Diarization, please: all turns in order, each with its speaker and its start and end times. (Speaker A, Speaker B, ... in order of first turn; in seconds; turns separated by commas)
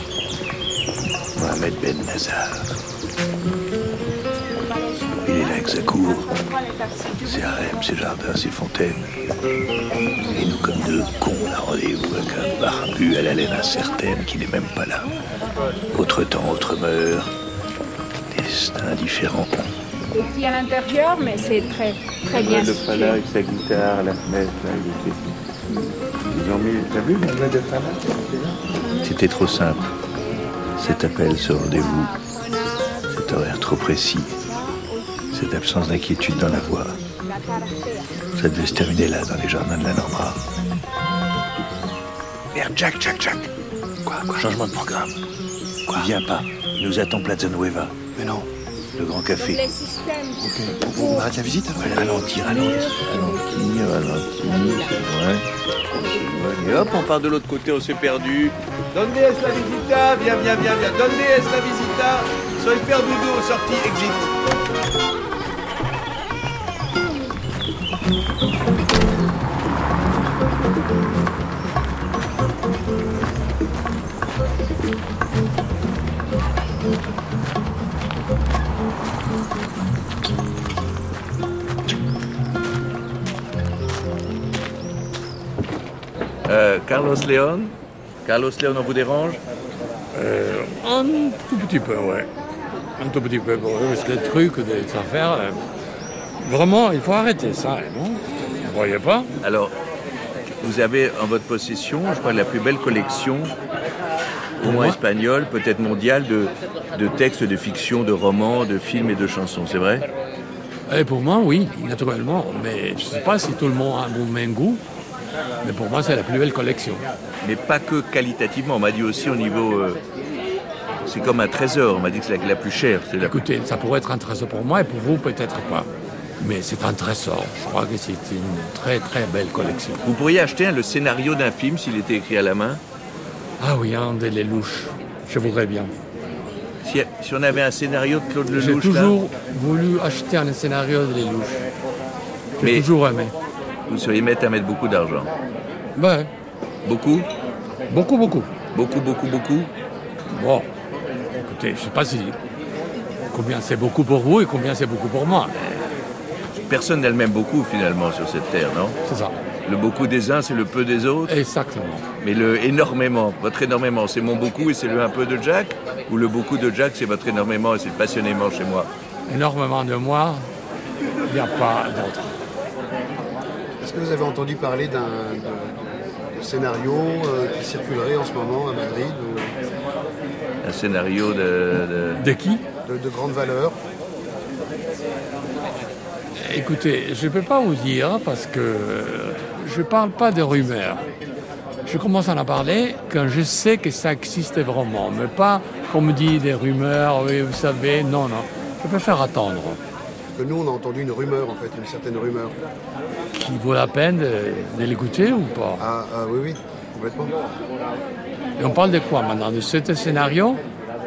Speaker A: 1.4-2.7, Speaker B: 4.7-5.1, Speaker A: 5.2-6.3, Speaker B: 6.5-7.2, Speaker A: 7.2-9.1, Speaker A: 10.2-15.1, Speaker A: 15.9-17.3, Speaker A: 18.3-19.7, Speaker B: 20.1-23.2, Speaker C: 22.3-25.2, Speaker C: 26.3-27.4, Speaker A: 29.0-29.9, Speaker A: 30.8-32.1, Speaker A: 33.1-34.4, Speaker A: 35.3-37.0, Speaker B: 37.3-38.0, Speaker A: 38.3-40.4, Speaker A: 42.5-43.5, Speaker A: 44.1-45.1, Speaker A: 45.9-47.9, Speaker D: 48.1-48.5, Speaker A: 49.0-49.6, Speaker B: 49.6-50.4, Speaker D: 50.4-52.2, Speaker A: 51.8-55.0, Speaker B: 52.7-53.0, Speaker C: 54.1-54.9, Speaker C: 56.1-64.3, Speaker C: 86.5-87.7, Speaker C: 88.2-89.4, Speaker E: 90.1-92.3, Speaker E: 93.0-95.6, Speaker E: 96.4-99.3, Speaker C: 99.4-99.7, Speaker C: 100.6-103.5, Speaker C: 104.6-110.0, Speaker E: 104.6-105.0, Speaker E: 110.9-114.8, Speaker E: 115.6-117.0, Speaker C: 117.4-120.0, Speaker C: 121.0-123.4, Speaker E: 123.2-125.9, Speaker E: 126.4-130.0, Speaker C: 130.0-132.8, Speaker E: 133.6-135.9, Speaker C: 136.8-139.1, Speaker E: 138.6-141.6, Speaker C: 142.6-142.9, Speaker E: 142.6-143.3, Speaker C: 143.9-145.3, Speaker E: 145.9-146.3, Speaker C: 146.8-147.3, Speaker E: 147.9-148.5, Speaker C: 148.7-149.7, Speaker E: 150.3-150.7, Speaker E: 151.4-152.4, Speaker E: 153.3-155.5, Speaker C: 156.7-159.0, Speaker E: 159.1-159.3, Speaker C: 159.6-161.3, Speaker E: 161.3-162.1, Speaker C: 162.2-168.9, Speaker E: 169.3-170.5, Speaker E: 171.2-172.3, Speaker D: 173.8-179.6, Speaker C: 180.6-182.2, Speaker E: 182.2-182.6, Speaker D: 182.8-183.8, Speaker E: 186.4-191.1, Speaker E: 191.8-199.8, Speaker D: 200.3-202.6, Speaker E: 203.3-205.8, Speaker D: 205.8-207.3, Speaker E: 208.6-210.6